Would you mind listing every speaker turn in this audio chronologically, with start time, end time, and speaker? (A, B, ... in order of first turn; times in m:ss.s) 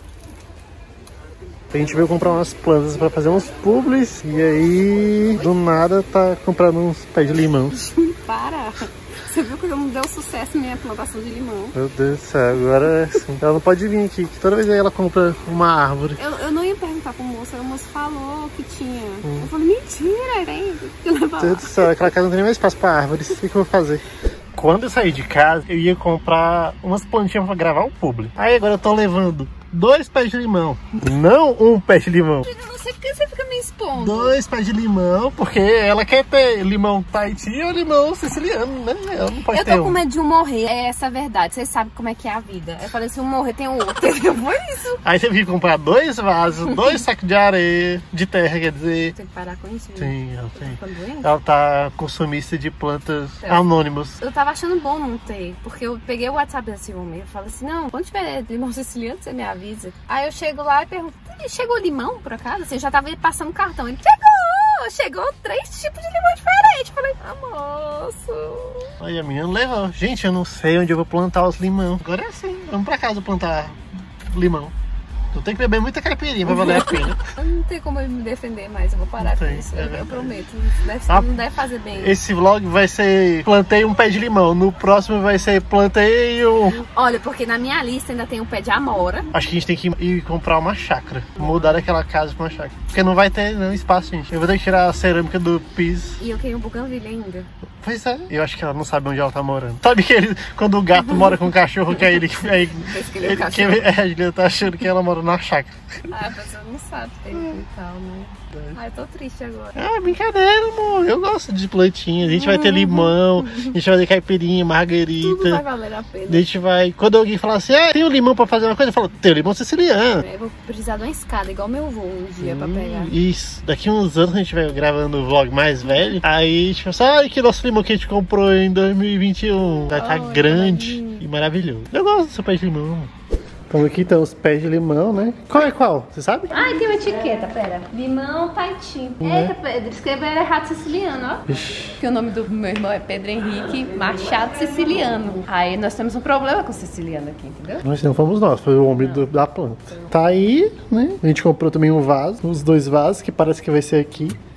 0:01.7-0:07.8 A
0:07.8-0:11.8 B
0:11.7-0:16.2 A
0:16.2-0:22.0 B
0:19.2-0:19.5 A
0:21.4-0:32.5 A
0:32.4-0:34.4 B
0:34.0-0:40.0 A
0:39.5-0:45.0 B
0:45.0-0:49.1 A
0:49.1-0:51.3 B
0:50.0-0:54.2 A
0:54.2-1:08.9 B
1:09.0-1:14.7 A
1:15.3-1:17.2 A
1:16.4-1:22.2 B
1:19.2-1:20.2 A
1:22.0-1:26.8 A
1:26.8-1:29.3 B
1:29.3-1:36.2 A
1:36.2-1:37.5 B
1:37.8-1:45.8 A
1:42.6-1:43.8 B
1:46.1-1:49.8 B
1:49.7-1:55.6 A
1:52.2-1:53.7 B
1:55.2-1:56.4 B
1:56.3-2:00.2 A
2:00.2-2:03.1 B
2:02.4-2:13.1 A
2:09.8-2:11.2 B
2:13.7-2:16.6 A
2:16.5-2:27.8 B
2:19.2-2:19.5 A
2:21.5-2:21.9 A
2:27.8-2:34.4 A
2:28.9-2:29.3 B